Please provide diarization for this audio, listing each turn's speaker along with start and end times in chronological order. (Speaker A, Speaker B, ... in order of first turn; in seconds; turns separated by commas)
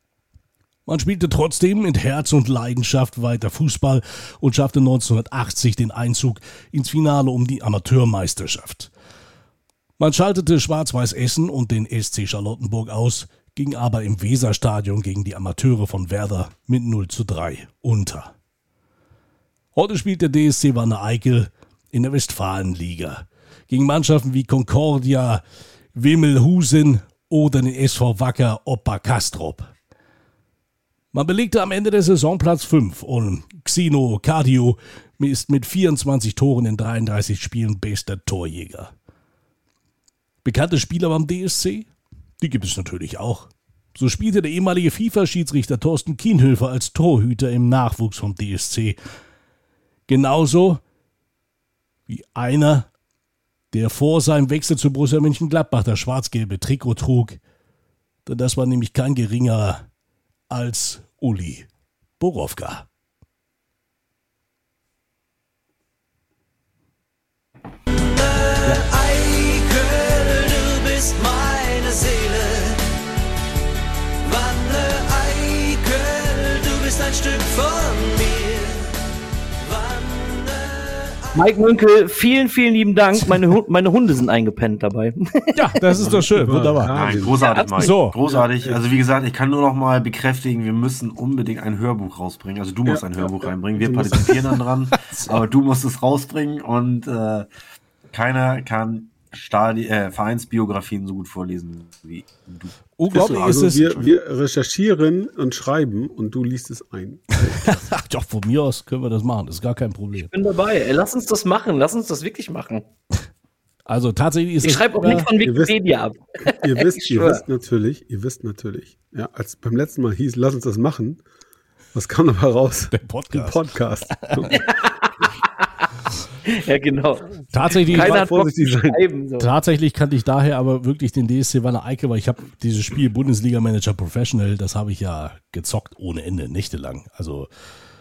Speaker A: 0.9-8.9, Speaker A: 10.0-18.3, Speaker A: 19.7-25.4, Speaker A: 25.9-29.7, Speaker A: 31.1-38.9, Speaker A: 40.4-41.9, Speaker A: 42.4-49.0, Speaker A: 50.1-50.8, Speaker A: 52.1-52.9, Speaker A: 53.7-57.4, Speaker A: 58.2-59.8, Speaker A: 60.5-61.7, Speaker A: 62.2-62.9, Speaker B: 68.1-72.8, Speaker B: 74.2-78.8, Speaker B: 79.6-81.3, Speaker C: 81.3-85.5, Speaker A: 85.5-87.0, Speaker D: 85.9-87.4, Speaker E: 86.9-97.5, Speaker C: 87.4-87.9, Speaker A: 87.8-88.2, Speaker D: 88.3-88.8, Speaker D: 92.8-94.6, Speaker A: 95.1-95.4, Speaker E: 98.1-103.6, Speaker A: 103.0-104.2, Speaker D: 103.1-107.8, Speaker A: 107.6-110.3, Speaker C: 110.1-112.8, Speaker A: 113.9-115.3, Speaker C: 114.6-117.4, Speaker D: 115.1-115.8, Speaker D: 116.4-121.2, Speaker D: 121.9-124.6, Speaker A: 122.9-124.5, Speaker C: 124.5-125.8, Speaker C: 126.4-127.3, Speaker A: 127.5-128.2, Speaker D: 127.8-129.0, Speaker C: 127.9-129.5, Speaker A: 129.4-137.5